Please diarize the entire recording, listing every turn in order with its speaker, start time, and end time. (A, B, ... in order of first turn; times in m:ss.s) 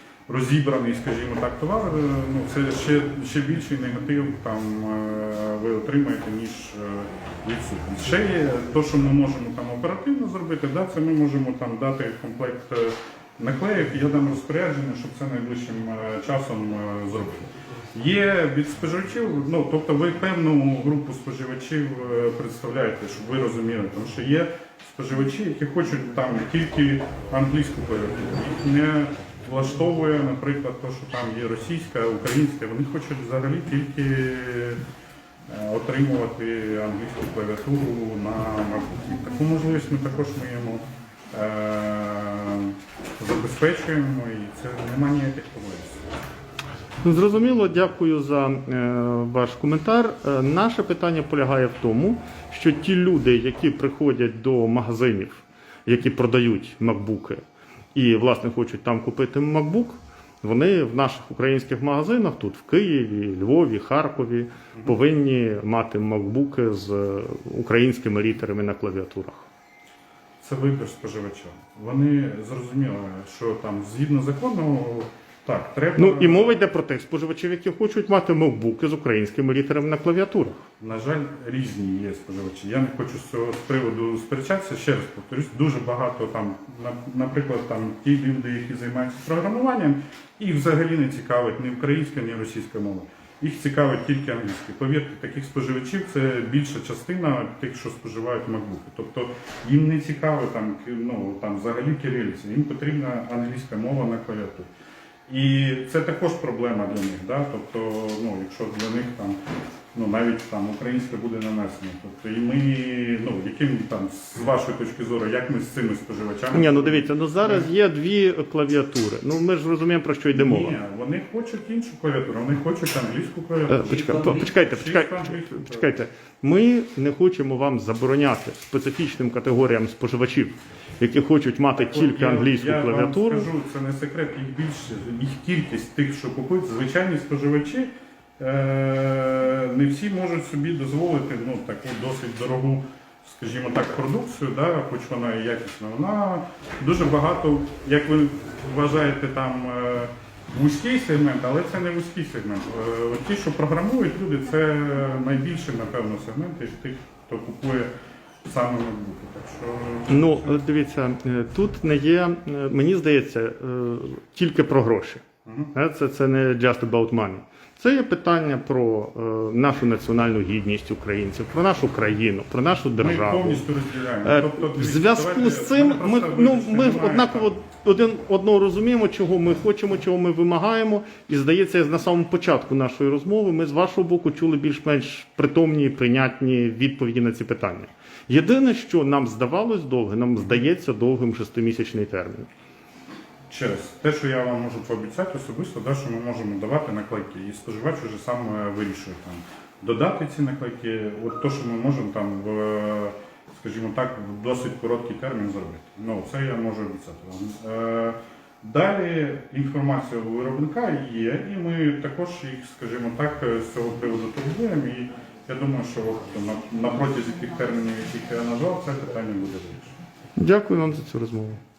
0:00.3-0:34.8 A
0:35.5-0:46.0 A
0:47.0-0:57.4 B
0:57.9-1:09.5 B
1:10.4-1:16.6 A
1:16.0-1:20.6 B
1:20.8-1:44.7 A
1:45.3-1:49.4 A
1:49.9-1:57.7 A
1:56.5-2:00.8 B
2:00.3-2:06.0 A
2:03.7-2:13.5 B
2:11.7-2:37.9 A
2:38.4-2:40.6 A
2:40.1-2:45.2 B
2:45.4-2:45.7 A
2:45.7-2:53.6 B
2:53.0-2:57.6 A
2:54.2-3:12.5 B
3:13.5-3:39.9 A
3:40.4-3:41.6 B